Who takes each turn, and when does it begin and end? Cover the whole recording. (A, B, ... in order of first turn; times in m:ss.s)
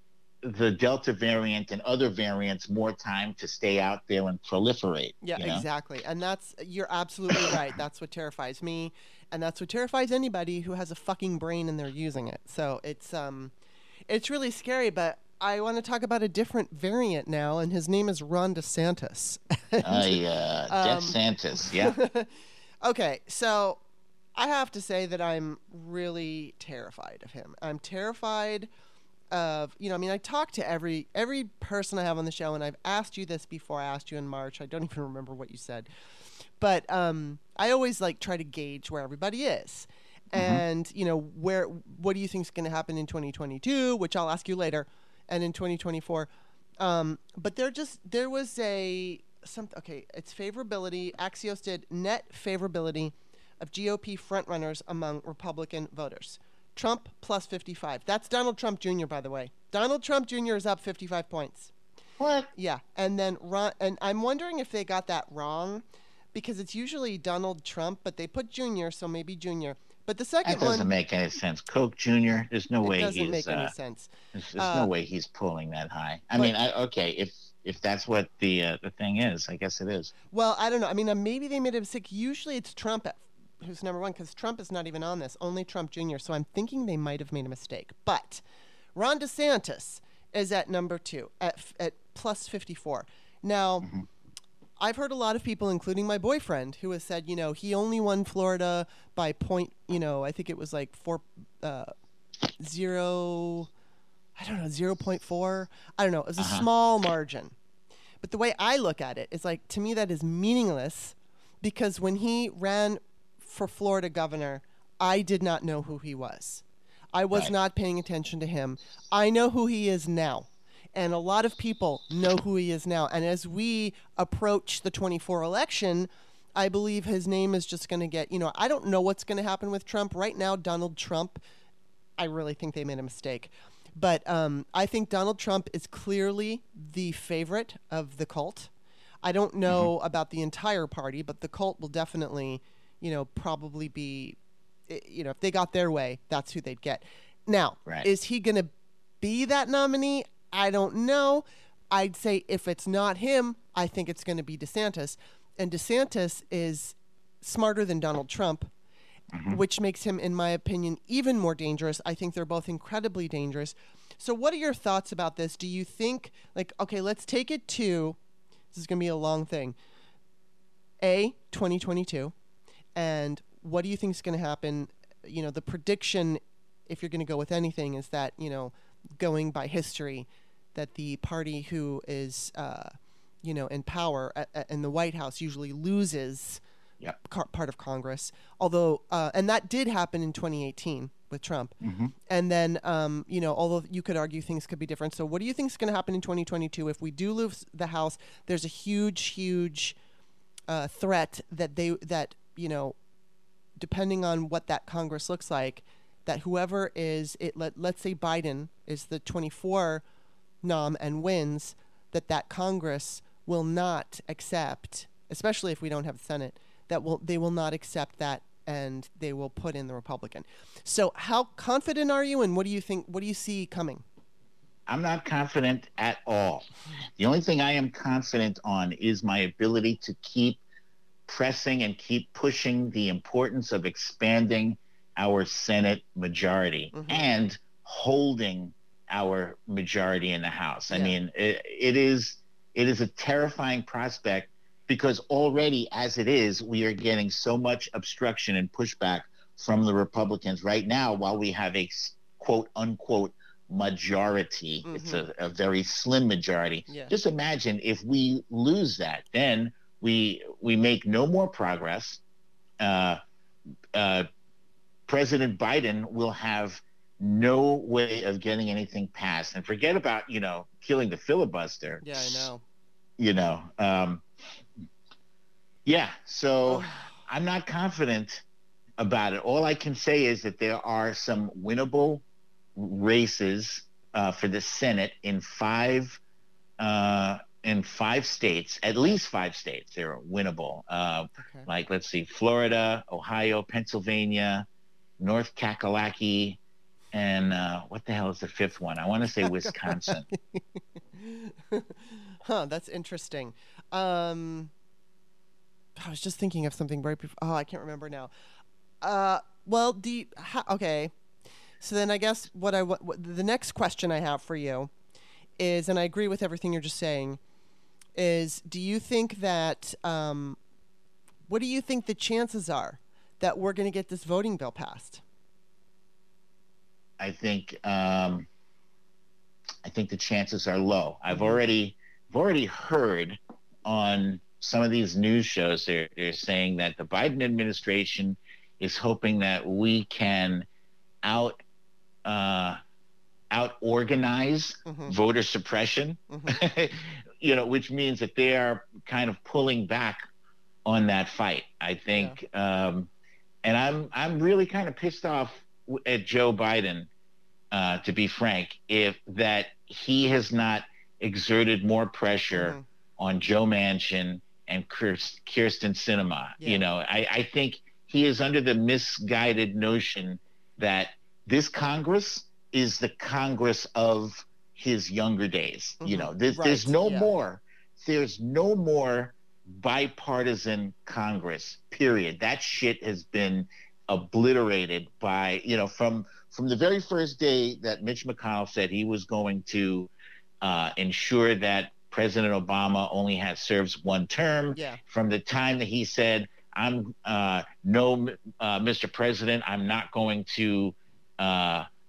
0:00.4-0:05.6 A
0:05.2-0:13.5 B
0:14.1-0:20.2 B
0:19.8-0:22.0 A
0:20.7-0:21.2 B
0:21.8-0:22.3 B
0:22.8-0:23.8 B
0:24.4-0:28.7 B
0:29.3-0:35.9 B
0:36.6-0:46.3 B
0:40.4-0:40.6 A
0:46.8-1:01.7 B
1:02.2-1:02.5 A
1:02.6-1:05.8 B
1:06.3-1:10.9 B
1:10.4-1:13.7 A
1:12.8-1:14.9 B
1:14.3-1:20.1 A
1:20.3-1:28.4 B
1:29.0-1:33.9 B
1:34.8-1:41.9 B
1:42.6-1:43.7 B
1:44.4-1:47.6 B
1:46.4-1:46.7 A
1:48.2-2:11.4 B
2:12.2-2:18.7 B
2:19.2-2:24.4 B
2:24.9-2:38.7 B
2:39.3-2:39.6 A
2:39.5-2:48.2 B
2:48.7-2:49.8 B
2:51.0-2:52.3 B
2:53.0-3:06.6 B
3:07.2-3:11.7 B
3:11.8-3:12.1 A
3:12.3-3:20.0 B
3:20.7-3:23.0 B
3:23.8-3:30.0 B
3:30.6-3:44.0 B
3:44.9-3:46.7 A
3:47.2-3:50.6 A
3:51.3-4:22.2 A
3:56.9-3:57.3 B
4:00.9-4:01.2 B
4:14.9-4:15.2 B
4:16.9-4:17.1 B
4:22.8-4:23.2 A
4:23.9-4:24.3 A
4:25.1-4:32.5 A
4:32.0-4:32.6 B
4:33.2-4:34.2 A
4:35.8-4:38.4 A
4:36.7-4:37.1 B
4:39.0-4:42.2 A
4:42.8-4:46.2 A
4:46.8-4:54.7 A
4:51.4-4:51.7 B
4:55.2-4:56.6 A
4:57.1-5:00.3 A
4:59.4-5:00.6 B
5:01.1-5:04.7 B
5:06.0-5:08.3 B
5:09.0-5:11.1 B
5:11.8-5:14.9 B
5:15.6-5:17.4 B
5:18.2-5:20.6 B
5:21.5-5:25.2 B
5:27.2-5:28.5 A
5:29.8-5:40.7 A
5:31.3-5:31.6 B
5:41.2-5:41.6 A
5:42.2-5:42.8 A
5:43.5-5:50.2 A
5:44.9-5:45.1 B
5:46.3-5:46.6 B
5:50.8-5:53.1 A
5:52.1-5:52.4 B
5:53.6-5:57.1 A
5:57.7-6:30.1 A
6:02.5-6:02.8 B
6:16.0-6:17.3 B
6:30.6-6:41.9 A
6:34.7-6:35.0 B